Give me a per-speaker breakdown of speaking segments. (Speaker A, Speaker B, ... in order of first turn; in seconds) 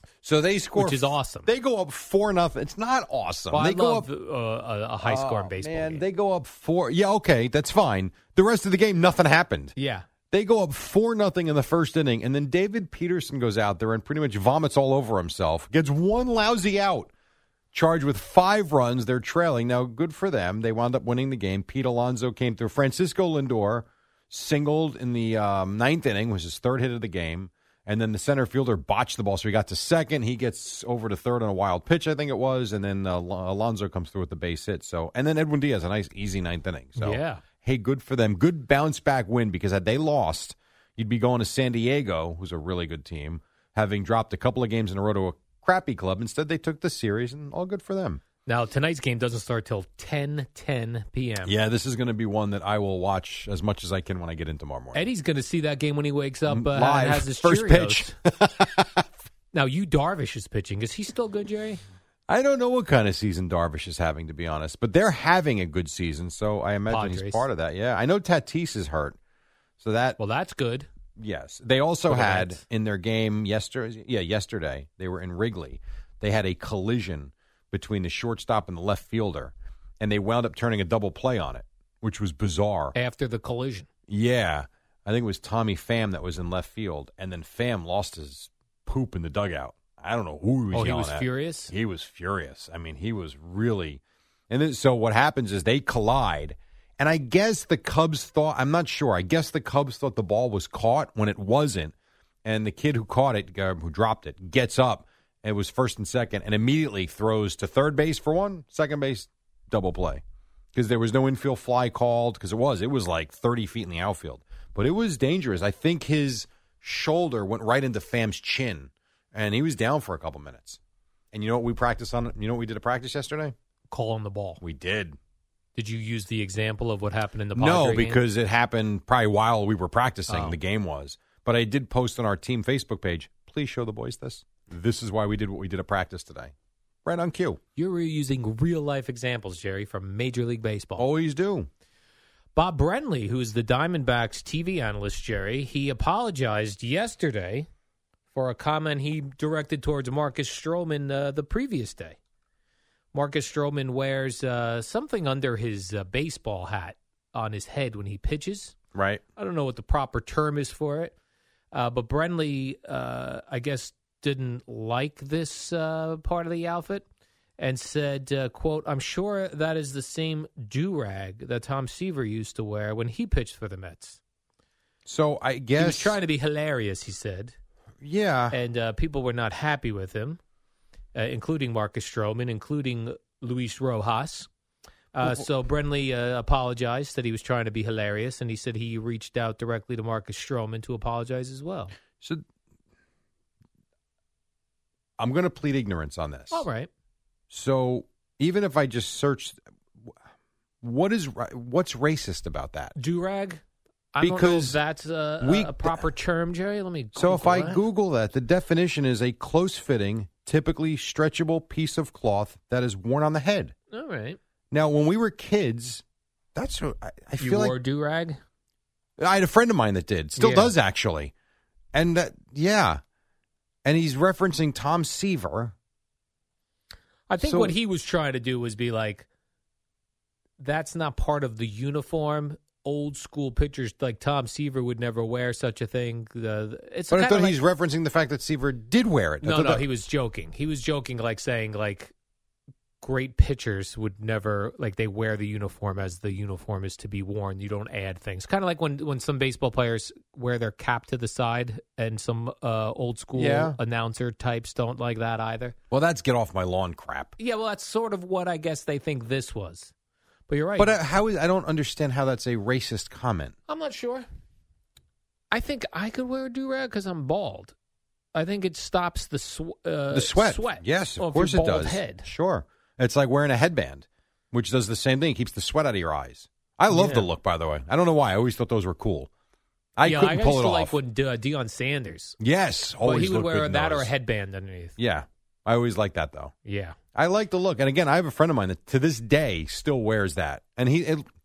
Speaker A: 0.2-4.1, 5.0-9.7, 10.3-17.1, 17.7-48.2, 51.5-55.0, 56.5-59.1, 62.3-69.2, 69.8-70.2, 71.2-83.0, 84.1-101.9, 102.5-110.2, 110.8-120.8, 121.3-123.5, 124.6-125.2, 127.5-136.5, 137.1-137.6, 141.0-141.7, 158.9-159.2, 175.1-176.2, 178.0-178.6, 185.2-185.5, 195.2-196.7, 197.5-200.1, 200.8-202.9, 204.2-204.8, 205.4-206.1, 207.2-213.7, 214.7-216.0, 216.6-217.8, 219.2-221.3, 221.9-223.0, 223.8-225.7, 227.4-227.8, 237.1-239.8, 253.4-253.8, 255.9-257.3, 260.8-263.6, 270.1-279.3, 280.0-281.0, 282.4-284.1, 285.0-286.5, 287.1-291.3
Speaker B: 0.8-1.5, 3.5-6.0, 9.8-10.1, 37.0-37.4, 48.5-51.5, 54.9-58.1, 59.5-61.8, 66.9-67.5, 70.2-70.9, 72.1-72.6, 82.9-83.9, 90.7-91.7, 123.9-124.6, 125.8-128.2, 130.3-130.6, 137.8-141.1, 142.6-147.7, 148.3-152.2, 153.1-158.8, 159.4-161.1, 161.7-167.1, 167.6-174.2, 175.8-177.6, 178.5-180.4, 181.2-184.5, 185.1-191.9, 196.5-196.9, 203.0-203.6, 204.1-207.8, 213.9-214.4, 217.4-218.4, 220.4-220.7, 227.3-229.3, 230.6-237.6, 239.4-242.1, 243.0-255.8, 257.4-259.9, 260.5-261.0, 263.7-264.3, 265.5-267.7, 268.3-272.3, 276.9-277.3, 280.0-282.4, 283.0-284.9, 286.6-287.0